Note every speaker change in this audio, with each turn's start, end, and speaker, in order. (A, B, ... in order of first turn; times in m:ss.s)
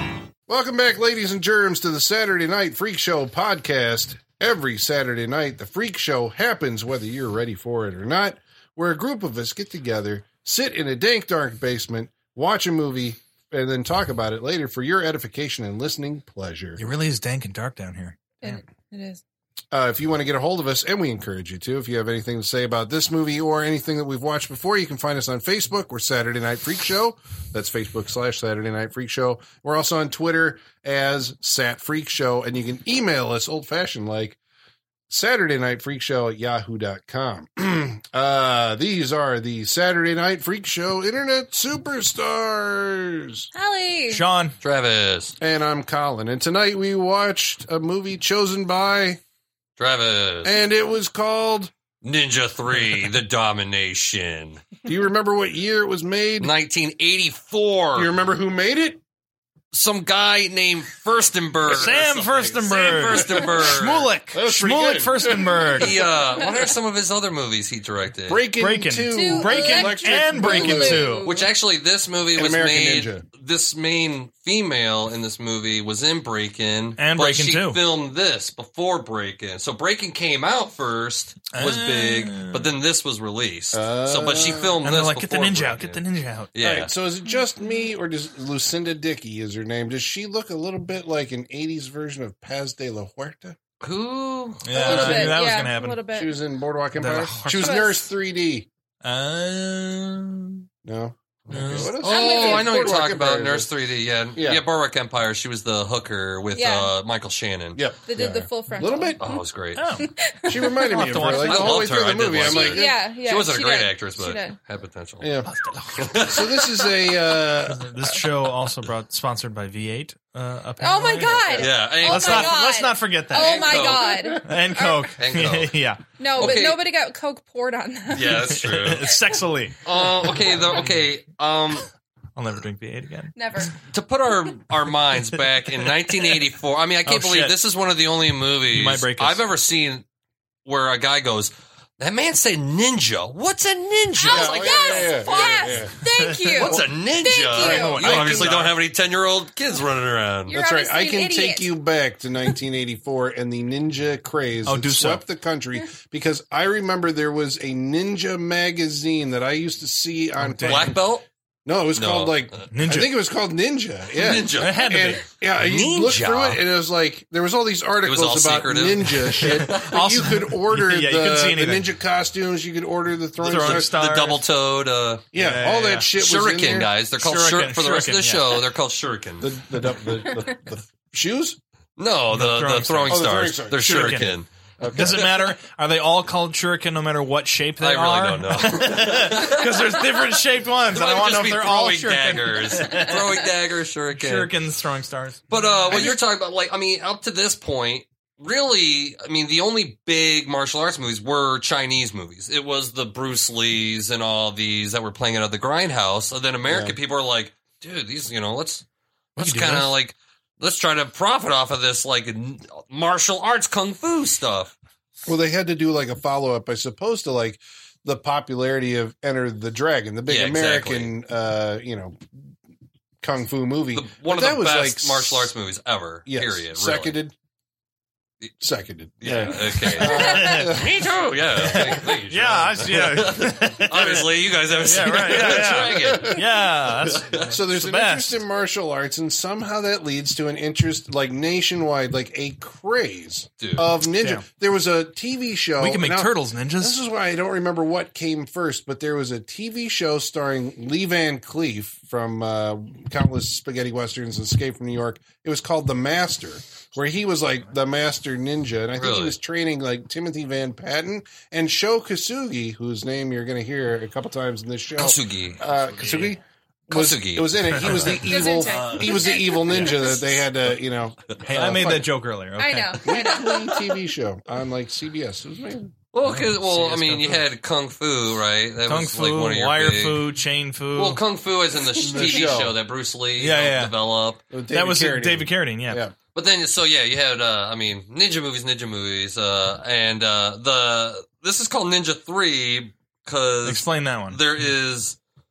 0:00.5-0:16.8 A
0:16.8-0:18.6 B
0:18.4-0:19.2 C
0:19.7-0:34.4 A
0:35.1-0:43.5 A
0:43.5-0:44.2 C
0:44.1-0:44.6 B
0:44.6-0:45.3 D
0:45.4-0:49.2 A
0:49.8-0:50.6 D
0:50.4-0:51.7 A
0:52.0-0:54.6 D
0:54.8-0:56.5 A
0:56.4-0:58.1 D
0:58.0-0:59.0 A
0:59.7-1:04.1 D
1:01.7-1:06.0 B
1:04.3-1:05.9 A
1:05.8-1:08.4 D
1:06.2-1:06.7 C
1:08.3-1:11.1 A
1:08.6-1:11.3 B
1:09.1-1:11.5 C
1:11.2-1:26.0 D
1:12.3-1:13.2 A
1:17.0-1:17.8 B
1:21.5-1:22.7 B
1:23.7-1:24.8 A
1:24.8-1:26.6 B
1:26.5-1:26.9 D
1:26.6-1:33.6 A
1:27.3-1:27.7 C
1:33.8-1:34.7 D
1:34.6-1:36.0 B
1:34.7-1:36.4 C
1:34.8-1:35.4 A
1:36.1-1:38.7 A
1:37.0-1:37.8 B
1:37.4-1:38.0 C
1:39.0-1:40.7 B
1:40.8-1:43.7 A
1:41.5-1:41.9 B
1:41.6-1:47.8 D
1:42.0-1:42.7 C
1:44.4-1:44.6 A
1:46.5-1:46.9 C
1:47.8-1:49.2 A
1:48.1-1:49.4 C
1:49.2-1:49.8 D
1:49.8-1:50.1 B
1:50.0-1:51.2 C
1:50.5-1:52.8 A
1:50.9-1:51.8 B
1:51.3-1:55.3 D
1:52.4-1:54.6 C
1:55.2-1:55.5 A
1:55.4-1:56.3 B
1:56.0-1:57.1 D
1:56.2-1:58.0 A
1:57.7-2:03.8 B
2:00.8-2:05.1 C
2:01.5-2:02.6 D
2:03.3-2:04.3 D
2:04.4-2:06.0 B
2:05.2-2:05.7 D
2:06.2-2:08.6 C
2:06.4-2:06.8 D
2:08.1-2:09.1 D
2:08.6-2:10.9 B
2:09.8-2:11.8 D
2:12.4-2:13.7 B
2:13.4-2:13.7 C
2:13.9-2:20.0 D
2:16.1-2:16.3 B
2:17.0-2:17.5 B
2:18.7-2:19.4 B
2:20.6-2:25.8 D
2:24.2-2:28.0 C
2:24.3-2:25.9 A
2:26.1-2:26.7 B
2:26.6-2:30.5 D
2:27.6-2:28.6 A
2:27.6-2:28.7 B
2:30.5-2:31.7 C
2:30.5-2:41.0 A
2:34.7-2:35.2 B
2:40.4-2:40.9 B
2:40.6-2:41.2 D
2:41.7-2:53.9 A
2:41.9-2:42.7 D
2:42.7-2:43.1 B
2:44.1-2:45.0 D
2:44.5-2:45.2 B
2:45.6-2:46.6 D
2:48.0-2:50.0 D
2:49.4-2:51.8 B
2:53.4-2:54.4 B
2:53.4-2:55.3 D
2:55.3-2:56.9 A
2:55.4-2:56.1 B
2:56.1-2:59.5 D
2:57.2-2:58.6 B
2:59.4-3:01.6 A
3:02.0-3:05.4 D
3:02.3-3:04.4 B
3:03.1-3:05.2 A
3:04.9-3:13.3 B
3:07.8-3:10.1 D
3:10.9-3:14.5 D
3:14.2-3:16.1 B
3:15.5-3:28.8 D
3:26.6-3:26.9 A
3:29.4-3:29.9 B
3:29.4-3:34.7 D
3:35.2-3:42.2 A
3:40.3-3:41.1 D
3:43.2-3:45.5 A
3:43.9-3:47.2 D
3:46.3-3:47.3 A
3:48.6-3:52.0 A
3:49.2-3:56.4 D
3:50.1-3:50.7 C
3:50.1-3:50.7 B
3:51.6-3:58.4 B
3:55.3-3:56.4 A
3:57.0-3:57.5 D
3:57.5-4:32.1 A
4:03.6-4:03.9 D
4:04.2-4:04.4 B
4:05.8-4:07.0 B
4:19.0-4:19.4 D
4:25.0-4:25.6 D
4:25.9-4:26.4 B
4:26.9-4:28.1 D
4:27.7-4:29.2 B
4:28.1-4:30.4 C
4:29.7-4:30.0 B
4:31.4-4:33.0 B
4:32.6-4:33.8 C
4:33.0-4:35.9 A
4:36.1-4:40.2 D
4:36.2-4:37.4 B
4:38.9-4:41.2 B
4:40.9-4:44.4 D
4:42.0-4:42.8 A
4:43.4-4:43.9 B
4:44.5-4:46.1 A
4:44.7-4:46.0 B
4:46.3-4:55.2 D
4:53.6-4:54.4 B